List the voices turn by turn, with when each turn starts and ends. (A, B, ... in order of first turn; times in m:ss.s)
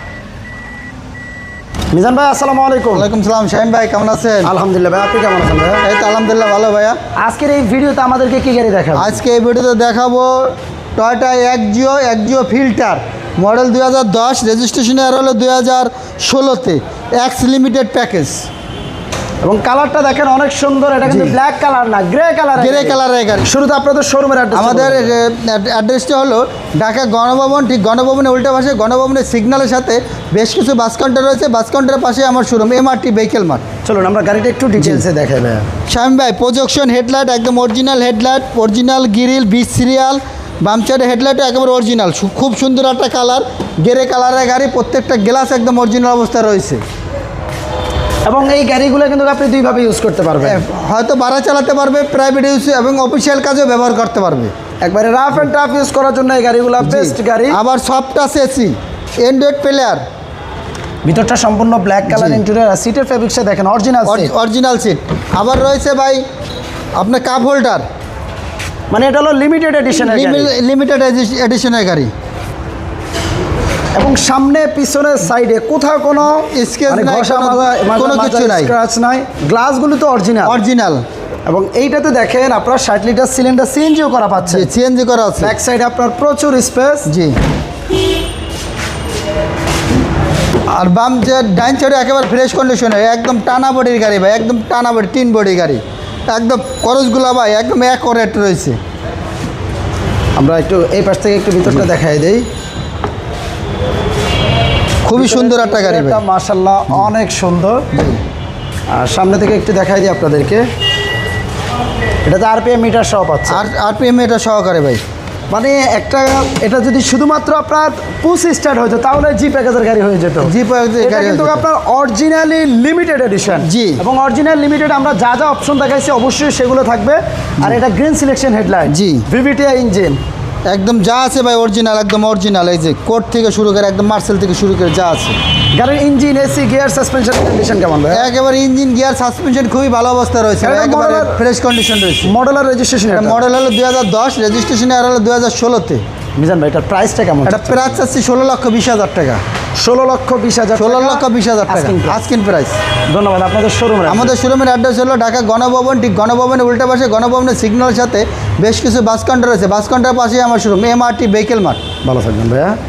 0:01.9-0:03.1 A
0:02.9-0:04.5 B
0:04.4-0:05.8 A
0:05.8-0:07.0 B
0:07.2-0:09.2 A
0:09.0-0:18.4 B
0:19.4-0:25.1 A
0:21.0-0:21.4 B
0:22.6-0:23.5 B
0:24.5-0:33.6 B
0:33.8-0:35.7 A
0:35.9-0:46.8 B
0:48.2-0:50.6 A
0:50.4-0:54.5 B
0:54.8-0:57.6 A
0:56.8-1:00.0 B
1:01.0-1:04.3 A
1:02.1-1:02.4 B
1:04.0-1:06.2 B
1:07.0-1:07.8 B
1:08.9-1:10.5 A
1:10.0-1:12.1 B
1:13.9-1:20.6 A
1:16.4-1:18.7 B
1:20.4-1:21.0 B
1:21.4-1:24.7 A
1:24.4-1:25.5 B
1:25.4-1:27.1 A
1:27.1-1:27.3 B
1:30.7-1:38.8 B
1:40.4-1:42.5 A
1:45.0-1:46.2 B
1:45.1-1:47.8 A
1:47.9-1:48.2 B
1:48.9-1:50.6 A
1:52.2-1:53.6 A
1:53.5-1:55.0 B
1:55.5-2:10.2 A
2:00.4-2:01.6 B
2:03.6-2:04.0 B
2:08.9-2:09.2 B
2:10.6-2:15.3 B
2:15.7-2:18.3 A
2:18.1-2:22.3 B
2:20.6-2:21.4 A
2:22.2-2:23.4 A
2:23.1-2:26.0 B
2:26.4-2:28.0 A
2:27.4-2:29.4 B
2:29.8-2:32.2 A
2:30.8-2:32.8 B
2:33.1-2:34.4 A
2:34.1-2:41.8 B
2:42.0-2:42.8 A